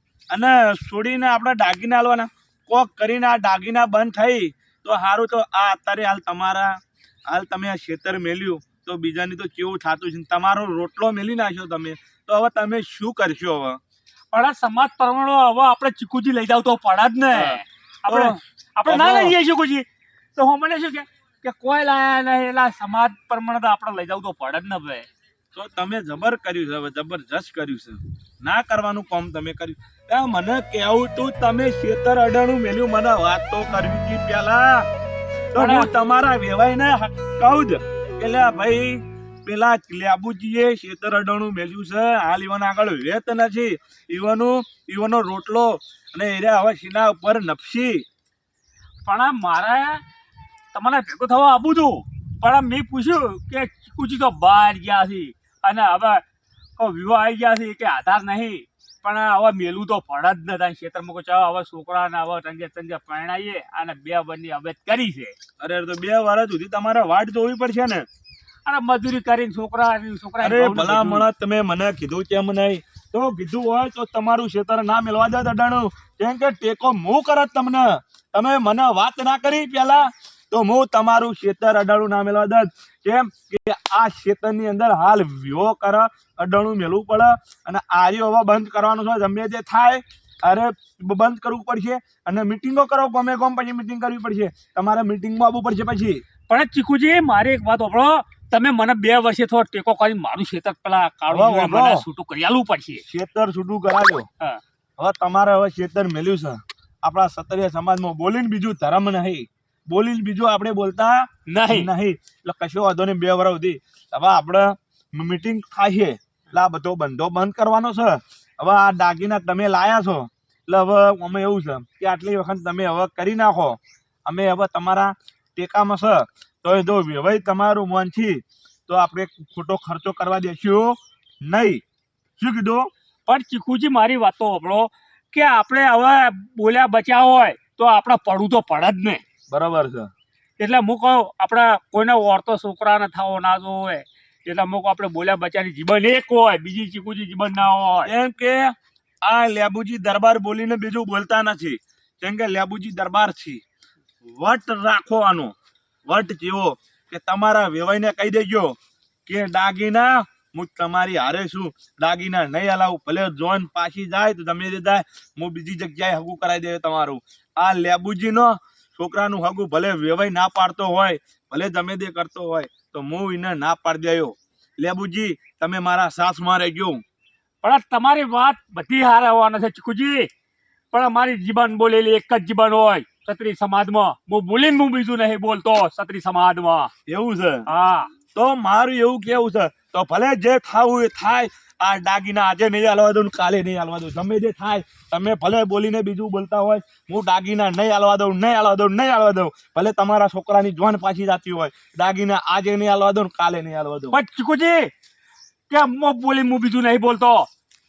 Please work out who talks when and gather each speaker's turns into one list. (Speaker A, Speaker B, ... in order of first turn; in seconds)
Speaker A: 0.3-6.8, 7.3-13.8, 17.3-18.3, 18.9-19.4, 25.5-34.9, 35.5-48.0, 65.6-68.1, 70.4-96.2, 101.3-102.0, 103.1-104.3, 105.0-131.8, 132.4-132.9, 139.5-140.1, 148.1-153.6, 154.2-155.6, 156.1-177.0, 187.1-187.6, 188.3-204.2
Speaker B: 14.3-25.1, 35.6-35.9, 49.0-50.0, 50.7-56.2, 56.8-65.3, 68.7-71.3, 96.5-103.0, 111.5-111.9, 133.3-139.2, 140.6-148.1, 177.6-180.3, 180.9-186.9, 187.7-188.1, 204.1-204.9, 205.7-207.5